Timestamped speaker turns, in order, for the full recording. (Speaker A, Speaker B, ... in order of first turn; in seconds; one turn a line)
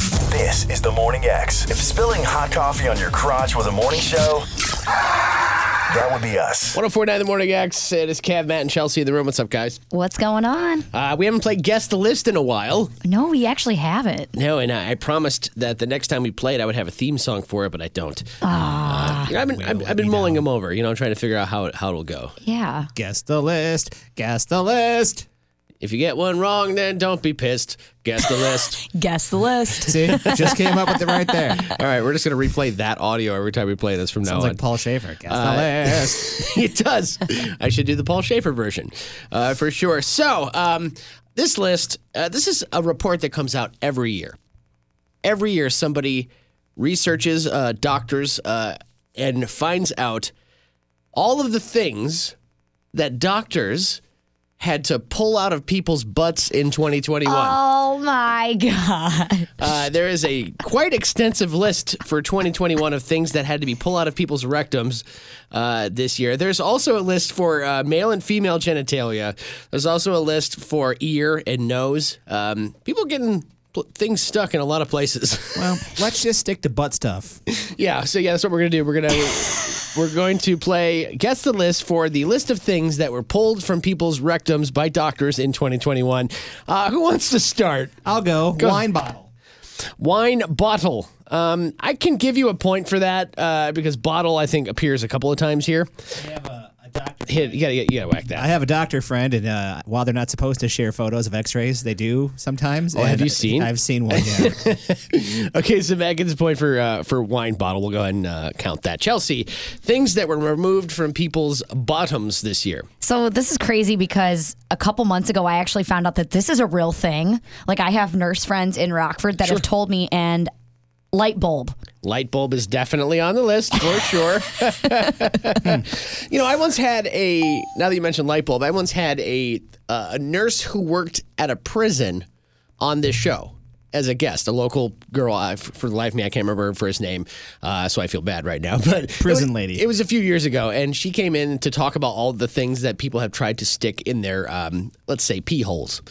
Speaker A: 0.2-4.5
Speaker A: 5.9-6.8
Speaker B: 6.7-9.8
Speaker C: 9.9-10.8
Speaker B: 10.9-12.9
Speaker C: 13.0-14.3
Speaker B: 14.3-22.4
Speaker C: 18.4-19.3
Speaker D: 19.3-20.4
Speaker C: 22.4-22.9
Speaker D: 22.9-25.2
Speaker B: 25.8-28.8
Speaker C: 28.9-31.3
Speaker D: 29.8-31.7
Speaker B: 31.6-34.6
Speaker D: 34.2-36.5
Speaker B: 35.3-44.4
Speaker B: 45.2-50.3
Speaker B: 51.1-52.3
Speaker B: 52.9-54.0
Speaker B: 54.6-57.6
Speaker C: 57.2-59.5
Speaker B: 59.6-75.9
Speaker D: 75.5-77.4
Speaker B: 77.5-88.0
Speaker D: 88.0-89.3
Speaker B: 88.6-88.8
Speaker B: 90.0-96.0
Speaker D: 96.2-97.6
Speaker B: 97.3-98.5
Speaker D: 98.3-104.6
Speaker B: 102.9-112.9
Speaker C: 113.0-120.5
Speaker C: 121.1-121.8
Speaker B: 122.0-132.2
Speaker B: 132.8-146.0
Speaker D: 139.2-139.8